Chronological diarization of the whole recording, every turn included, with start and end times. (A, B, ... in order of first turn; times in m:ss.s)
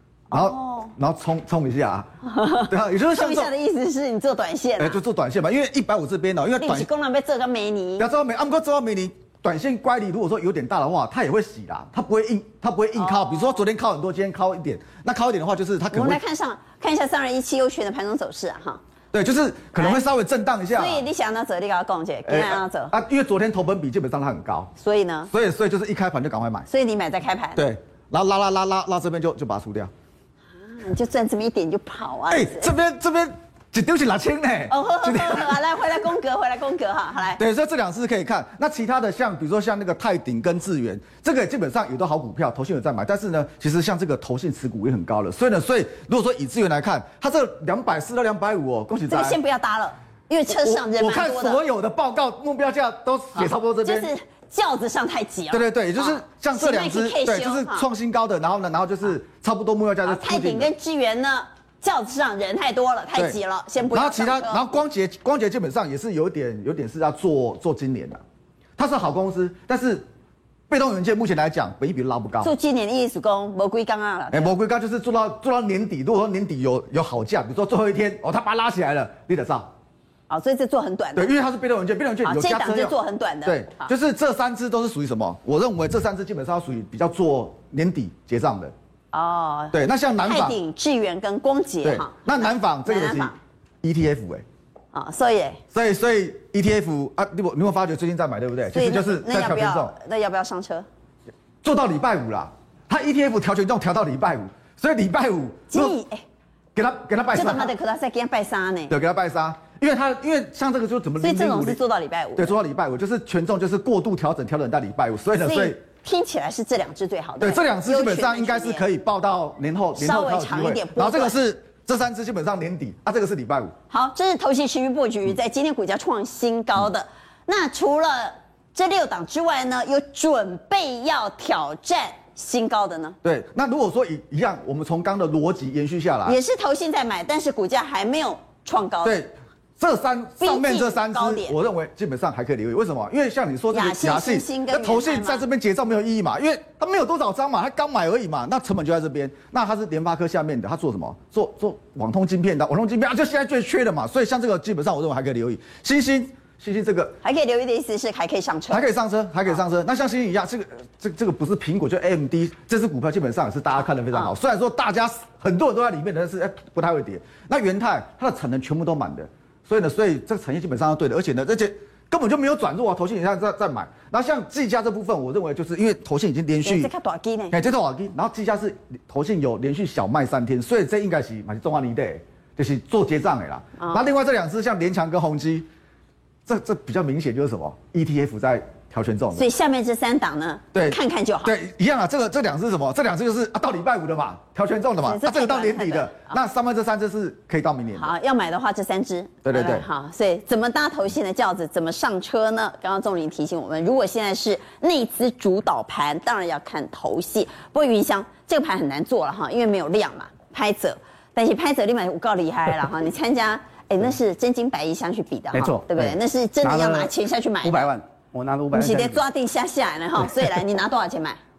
0:00.3-0:00.9 A
0:00.3-0:02.1 B
0:02.2-0:05.0 A
0:02.7-0:03.5 B
0:04.8-0:06.9 B
0:06.6-0:08.1 A
0:08.0-0:16.2 B
0:13.0-0:13.6 A
0:15.9-0:18.8 A
0:19.1-0:21.0 B
0:20.8-0:22.9 A
0:22.3-0:24.7 B
0:24.8-0:25.3 A
0:25.3-0:26.7 B
0:26.7-0:27.6 A
0:27.6-0:29.9 B
0:30.6-0:32.7 A
0:32.3-0:35.6 B
0:34.7-0:37.4 A
0:37.4-0:49.4 B
0:49.1-0:51.6 A
0:50.5-0:54.1 B
0:53.4-0:57.9 A
0:55.5-1:00.7 B
1:00.0-1:04.7 A
1:03.9-1:08.2 B
1:08.8-1:10.1 B
1:10.7-1:12.5 B
1:12.4-1:14.5 A
1:14.3-1:19.7 B
1:20.3-1:21.3 A
1:21.2-1:28.7 B
1:22.2-1:23.9 A
1:29.1-1:33.4 A
1:29.7-1:30.6 B
1:31.8-1:34.4 B
1:34.9-1:35.6 A
1:35.7-1:39.9 B
1:38.7-1:40.9 A
1:41.6-1:46.0 B
1:45.7-1:46.2 A
1:46.8-1:47.7 B
1:47.3-1:48.9 A
1:48.9-1:51.8 B
1:51.2-1:52.5 A
1:52.4-1:55.8 B
1:55.4-1:58.8 A
1:57.4-2:03.7 B
2:00.0-2:01.4 A
2:03.9-2:13.2 A
2:13.2-2:16.4 B
2:16.3-2:19.2 A
2:19.0-2:37.2 B
2:20.4-2:21.6 A
2:23.7-2:25.4 A
2:37.2-2:38.9 A
2:38.7-2:56.9 B
2:56.6-2:57.6 A
2:57.5-3:05.7 B
3:03.8-3:04.0 A
3:06.5-3:09.5 B
3:09.4-3:11.6 A
3:10.7-3:18.1 B
3:15.0-3:16.4 A
3:18.0-3:37.9 A
3:19.4-3:19.9 B
3:35.5-3:37.1 C
3:37.6-3:39.2 C
3:38.7-3:41.4 A